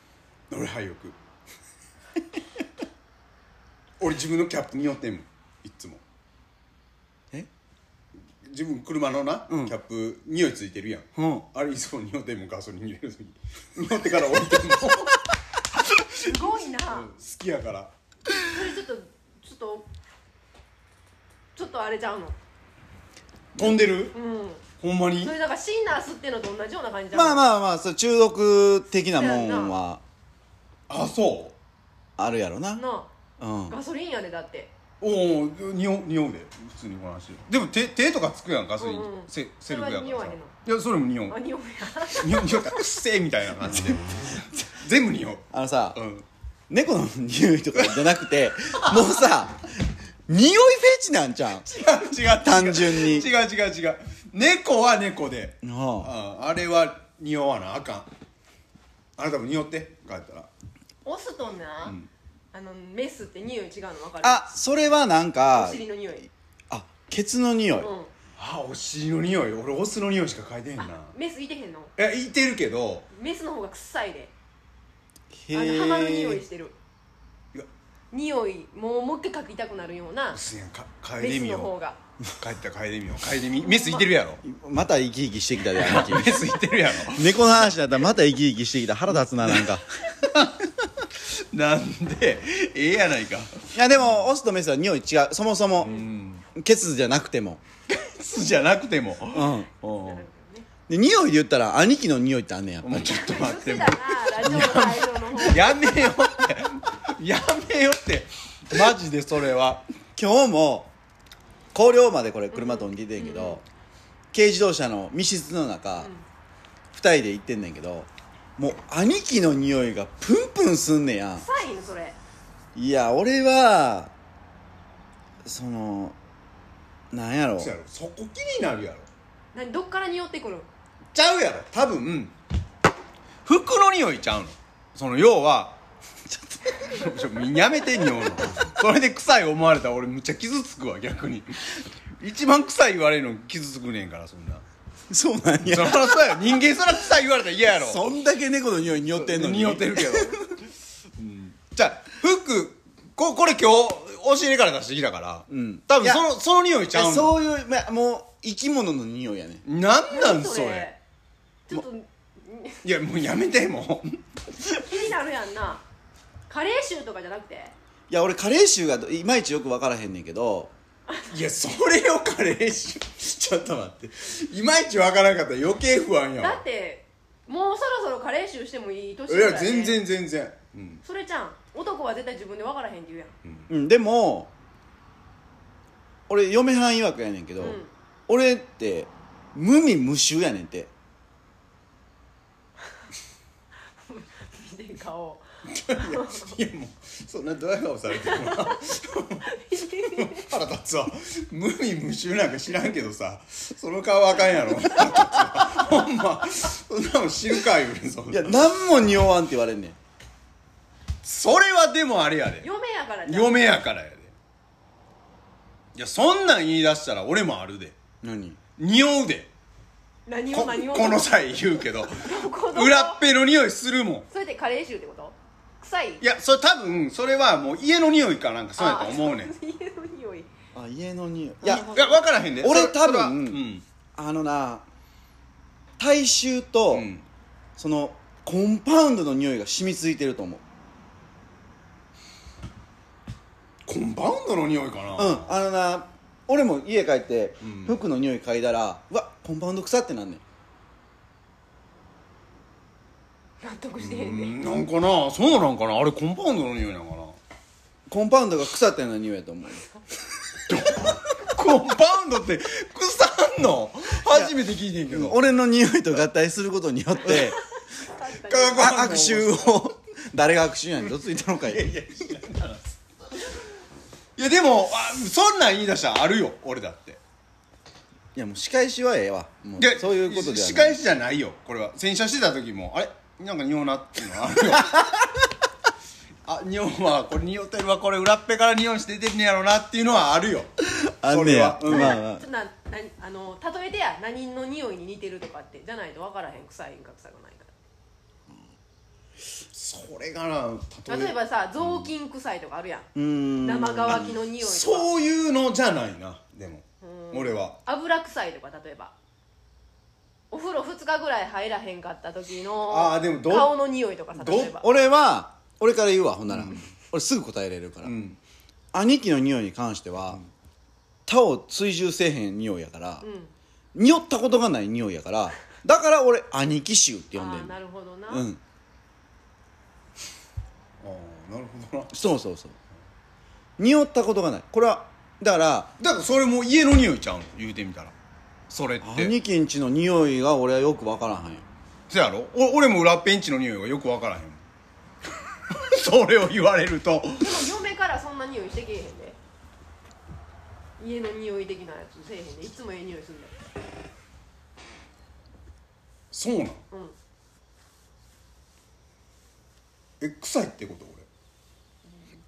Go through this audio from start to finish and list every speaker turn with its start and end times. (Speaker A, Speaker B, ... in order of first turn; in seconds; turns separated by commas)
Speaker A: 0.5-1.1, Speaker A: 4.0-6.0, Speaker A: 8.4-15.2, Speaker B: 9.5-9.7, Speaker B: 11.2-11.4, Speaker A: 16.0-17.9, Speaker C: 16.2-17.1, Speaker C: 18.4-19.9, Speaker C: 21.6-22.4, Speaker A: 23.5-24.1, Speaker C: 24.1-24.6, Speaker A: 24.8-25.3, Speaker C: 25.2-27.5, Speaker B: 27.1-30.0, Speaker C: 29.1-29.7, Speaker A: 30.9-31.6, Speaker B: 32.2-32.8, Speaker C: 32.8-33.1, Speaker B: 33.4-33.8, Speaker C: 33.7-34.7, Speaker A: 35.0-41.4, Speaker C: 38.8-40.5, Speaker C: 41.3-42.7, Speaker A: 42.1-46.2, Speaker B: 44.1-44.4, Speaker B: 45.5-46.0, Speaker B: 46.7-51.8, Speaker A: 47.8-48.1, Speaker A: 48.8-49.0, Speaker A: 51.7-58.1, Speaker B: 52.4-53.3, Speaker B: 55.6-56.1, Speaker A: 59.2-60.5, Speaker C: 61.0-62.0, Speaker C: 62.5-64.5, Speaker B: 64.2-65.8, Speaker C: 65.5-66.3, Speaker B: 66.7-67.9, Speaker C: 67.8-68.1, Speaker A: 68.3-71.1, Speaker C: 70.8-71.9, Speaker A: 72.0-73.1, Speaker C: 73.1-74.3, Speaker B: 75.4-76.4, Speaker C: 75.5-76.8, Speaker C: 78.1-80.4, Speaker A: 80.3-81.7, Speaker C: 81.2-82.0, Speaker A: 82.3-84.4, Speaker C: 83.6-84.0, Speaker B: 84.4-89.9, Speaker A: 85.7-87.8, Speaker A: 89.3-94.2, Speaker B: 93.7-95.9, Speaker A: 95.8-96.5, Speaker C: 95.8-96.1, Speaker B: 96.5-97.6, Speaker A: 97.9-100.2, Speaker B: 99.3-99.7, Speaker C: 99.8-100.7, Speaker B: 100.9-103.2, Speaker A: 102.8-109.8, Speaker C: 103.0-105.8, Speaker B: 110.2-110.9, Speaker B: 111.7-113.6, Speaker C: 112.5-113.6, Speaker B: 114.3-116.1, Speaker C: 116.0-116.2, Speaker B: 116.9-121.5, Speaker C: 121.4-122.2, Speaker B: 122.7-124.1, Speaker B: 125.4-126.2, Speaker B: 127.1-127.7, Speaker A: 127.6-129.1, Speaker C: 129.5-130.7, Speaker A: 131.1-132.3, Speaker A: 133.4-135.8, Speaker B: 136.3-137.0, Speaker A: 136.8-144.6, Speaker B: 145.1-146.6, Speaker A: 145.7-148.1, Speaker B: 147.6-150.4, Speaker A: 149.0-150.5, Speaker A: 151.2-157.4, Speaker B: 155.5-156.2, Speaker B: 156.9-159.6, Speaker A: 159.6-160.9, Speaker C: 160.1-161.0, Speaker C: 161.7-162.8, Speaker A: 162.8-164.9, Speaker C: 164.7-165.8, Speaker C: 166.5-167.7, Speaker B: 168.1-170.7, Speaker A: 171.3-176.6, Speaker C: 176.4-180.0, Speaker A: 179.3-181.0, Speaker C: 181.0-183.3, Speaker A: 183.4-183.7, Speaker B: 183.7-184.5, Speaker B: 186.3-190.9, Speaker C: 187.6-187.9, Speaker C: 194.0-195.4, Speaker A: 195.7-208.6, Speaker C: 195.9-196.5, Speaker C: 198.3-198.8, Speaker C: 199.4-200.5, Speaker B: 208.3-210.0, Speaker A: 211.2-212.7, Speaker C: 212.6-213.6, Speaker A: 213.2-214.3, Speaker A: 215.9-218.0, Speaker B: 218.2-218.6, Speaker A: 218.8-219.5, Speaker C: 220.3-223.2, Speaker A: 220.5-224.3, Speaker C: 224.3-226.2, Speaker A: 226.2-229.5, Speaker C: 228.8-230.5, Speaker B: 230.7-231.9, Speaker C: 231.7-232.2, Speaker A: 231.7-233.8, Speaker B: 232.6-233.6, Speaker B: 234.2-234.8, Speaker B: 236.0-237.1, Speaker A: 236.9-237.2, Speaker B: 237.8-240.6, Speaker A: 243.8-245.6, Speaker B: 245.2-250.4, Speaker A: 247.6-248.0, Speaker C: 253.6-254.6, Speaker A: 254.0-257.4, Speaker B: 258.1-259.8, Speaker A: 260.7-265.4, Speaker B: 264.3-264.5, Speaker B: 265.1-267.6, Speaker A: 267.2-267.5, Speaker C: 267.6-269.2, Speaker A: 268.4-269.8, Speaker B: 268.8-271.9, Speaker A: 271.6-272.9, Speaker A: 274.4-277.2, Speaker B: 278.3-281.0, Speaker A: 279.8-285.1, Speaker B: 284.8-285.1, Speaker A: 286.4-290.7, Speaker B: 290.9-292.4, Speaker A: 291.2-292.2, Speaker C: 291.9-297.7, Speaker A: 299.7-302.1, Speaker C: 301.1-303.1, Speaker B: 303.1-304.3, Speaker C: 303.6-305.1, Speaker A: 304.1-307.8, Speaker C: 307.0-309.1, Speaker C: 310.5-314.9, Speaker A: 312.9-313.8, Speaker A: 314.3-314.8, Speaker B: 314.8-318.1, Speaker A: 316.5-316.8, Speaker A: 318.0-318.4, Speaker B: 318.9-320.4, Speaker B: 321.3-323.2, Speaker C: 323.2-323.5, Speaker B: 323.9-327.8, Speaker C: 327.3-328.4, Speaker B: 328.3-328.6, Speaker A: 331.0-332.1, Speaker B: 332.1-332.8, Speaker B: 333.8-335.9, Speaker A: 336.0-338.1, Speaker A: 338.7-339.3, Speaker B: 339.0-341.6, Speaker A: 342.1-344.6, Speaker A: 345.7-347.6, Speaker C: 347.4-349.4, Speaker C: 351.0-353.6, Speaker A: 356.3-356.8, Speaker A: 360.2-361.3